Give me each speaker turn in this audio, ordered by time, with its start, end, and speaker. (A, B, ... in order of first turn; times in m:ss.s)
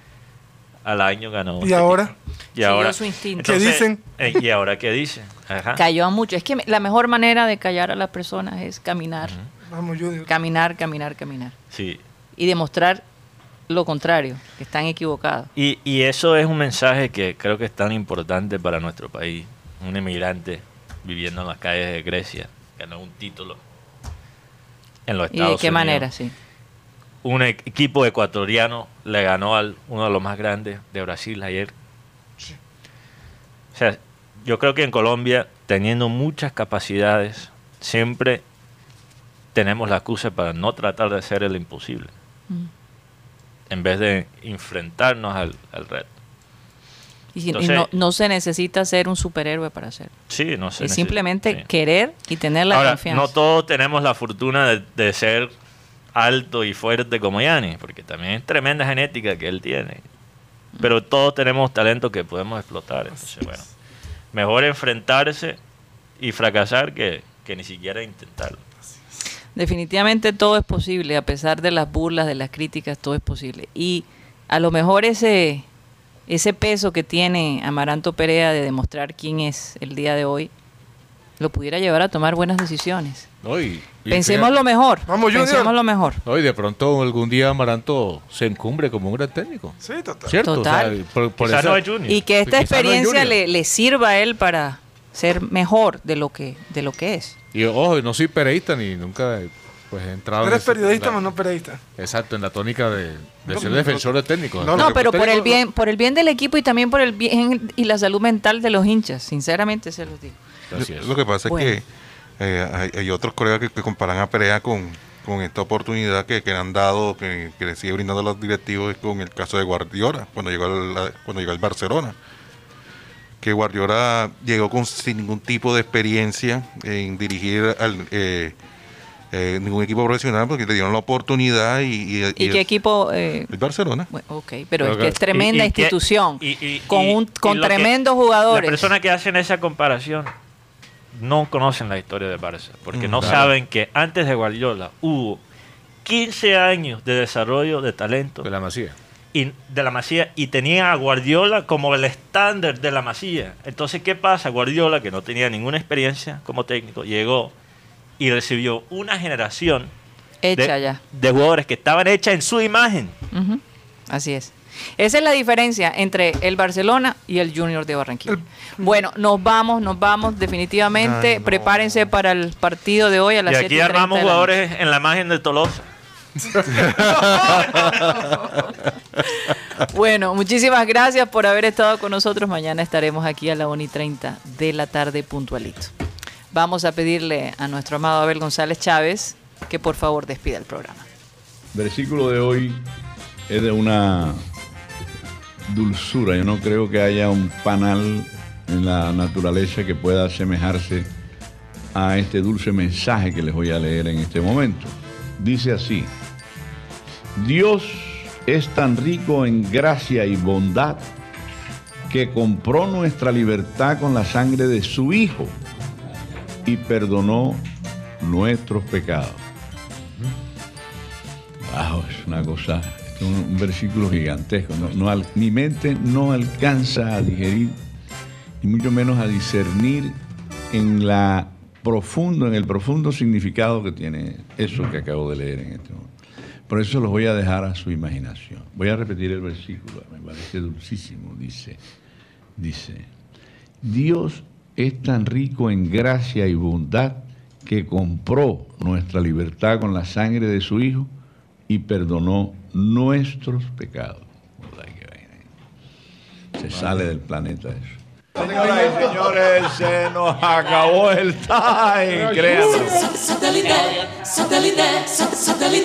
0:00.8-0:05.8 A
0:01.6-0:02.1 B
0:02.6-0:03.6 C
0:03.4-0:04.0 B
0:05.7-0:09.4 C
0:09.7-0:10.3 B
0:10.3-0:11.6 C
0:11.7-0:12.0 A
0:12.4-0:13.0 C
0:13.7-0:15.5 C
0:15.6-0:23.6 A
0:25.1-0:26.1 A
0:25.3-0:26.3 C
0:27.2-0:31.7 A
0:33.7-0:38.4 A
0:39.5-0:42.1 A
0:43.7-0:46.1 A
0:47.3-0:50.1 C
0:47.5-0:47.9 A
0:50.3-0:51.7 A
0:50.8-0:53.3 C
0:52.7-0:55.5 A
0:56.1-1:00.0 A
1:00.8-1:03.6 A
1:04.3-1:05.6 A
1:06.2-1:08.6 A
1:09.6-1:15.6 C
1:16.3-1:20.5 C
1:21.4-1:23.3 C
1:23.4-1:24.5 D
1:24.1-1:26.2 C
1:25.1-1:25.7 B
1:26.2-1:31.9 D
1:29.8-1:30.4 B
1:30.4-1:31.0 C
1:31.4-1:32.2 A
1:32.1-1:37.3 C
1:32.4-1:33.4 D
1:37.5-1:41.2 D
1:40.4-1:41.8 B
1:42.0-1:45.6 D
1:43.5-1:45.0 E
1:44.7-1:50.4 C
1:50.7-1:51.1 D
1:50.7-1:51.9 E
1:51.4-1:51.8 C
1:52.4-2:02.2 E
2:03.4-2:08.6 E
2:09.3-2:12.7 E
2:12.4-2:13.5 C
2:13.5-2:14.1 E
2:14.1-2:18.9 C
2:14.8-2:15.2 D
2:15.3-2:17.9 A
2:18.5-2:20.3 A
2:21.1-2:25.4 A
2:22.9-2:23.5 E
2:23.2-2:23.5 D
2:26.0-2:28.5 A
2:28.4-2:29.0 D
2:29.3-2:37.5 A
2:38.2-2:39.9 A
2:40.4-2:41.0 C
2:40.6-2:43.2 A
2:43.3-2:54.5 C
2:51.0-2:52.0 E
2:53.4-2:55.9 A
2:56.7-2:58.1 E
2:59.7-3:05.9 C
3:06.5-3:11.0 C
3:11.7-3:12.9 F
3:13.5-3:14.4 F
3:15.7-3:21.1 F
3:21.9-3:26.1 F
3:27.3-3:31.1 F
3:32.1-3:35.6 F
3:36.6-3:39.4 F
3:41.6-3:47.8 F
3:48.6-3:56.1 F
3:56.7-4:01.8 F
4:02.6-4:03.1 F
4:03.8-4:11.1 F
4:11.7-4:15.5 F
4:16.6-4:23.2 F